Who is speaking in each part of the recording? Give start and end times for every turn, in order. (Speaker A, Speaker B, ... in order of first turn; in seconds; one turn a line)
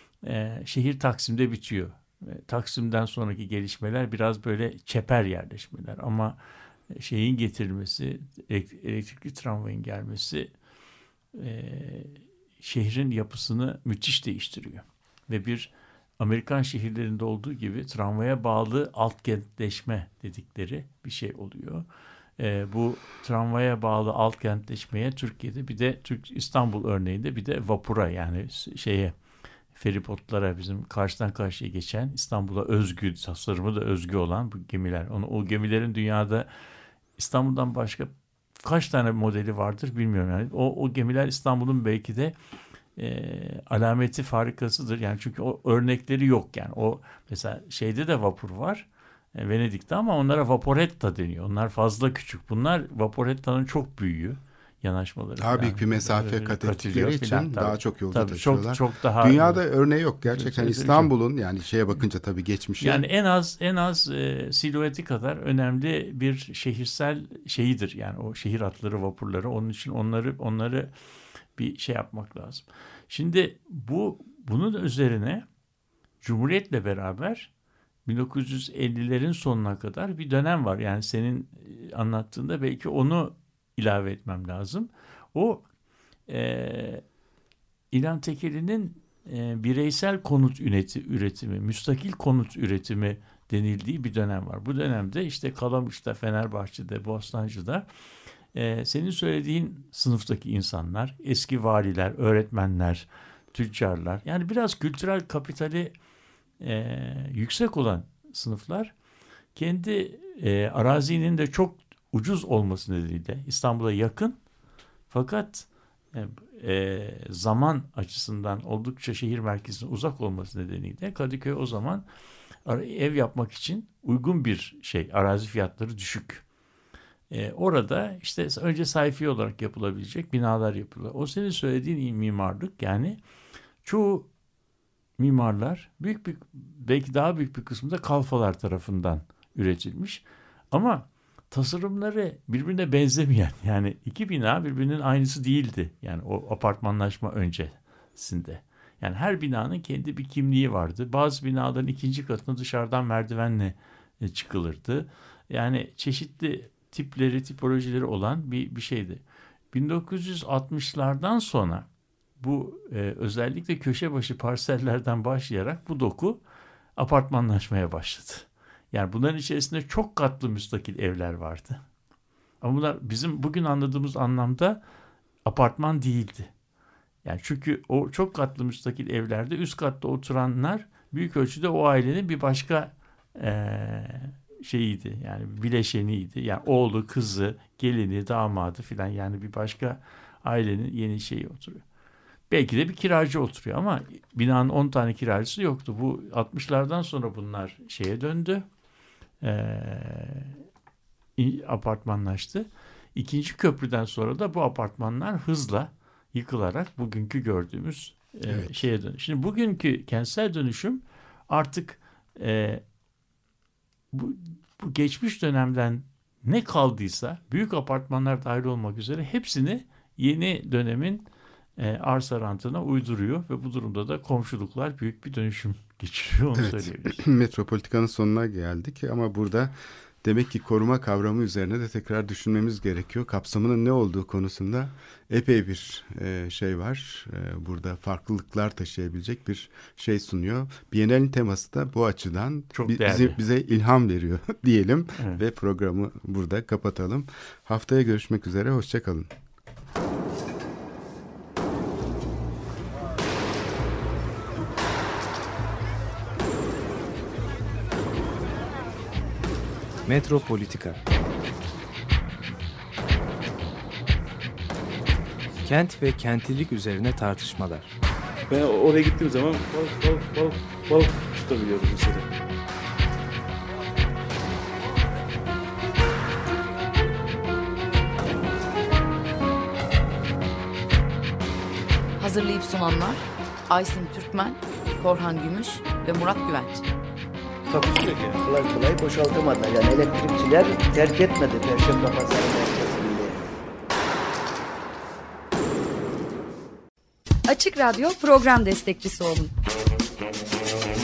Speaker A: 0.2-6.4
Speaker A: 6.9-10.5
Speaker A: 11.3-21.8
Speaker A: 22.4-29.1
Speaker A: 29.7-36.5
Speaker A: 37.2-42.3
Speaker A: 43.0-59.6
Speaker B: 55.4-63.0
Speaker A: 60.3-61.1
Speaker A: 62.8-70.9
Speaker A: 71.5-75.5
Speaker A: 76.2-77.5
Speaker A: 78.0-85.6
Speaker A: 86.3-87.0
Speaker A: 87.9-97.9
Speaker A: 98.5-105.9
Speaker A: 106.6-108.9
Speaker A: 109.5-114.4
Speaker A: 115.1-122.0
Speaker A: 122.7-126.4
Speaker A: 127.3-133.2
Speaker A: 133.8-134.3
Speaker A: 135.2-161.9
Speaker A: 162.4-166.4
Speaker A: 167.0-171.8
Speaker A: 172.6-174.8
Speaker A: 175.4-176.5
Speaker A: 177.2-191.8
Speaker A: 192.5-198.7
Speaker A: 199.4-200.6
Speaker A: 201.4-212.8
Speaker B: 208.5-208.8
Speaker A: 214.1-221.3
Speaker A: 221.8-227.2
Speaker B: 226.6-249.3
Speaker A: 242.7-243.4
Speaker C: 260.1-261.0
Speaker C: 265.6-267.9
Speaker D: 268.5-272.3
Speaker E: 282.2-286.8
Speaker D: 287.7-288.4
Speaker F: 288.4-293.5
Speaker G: 297.5-299.5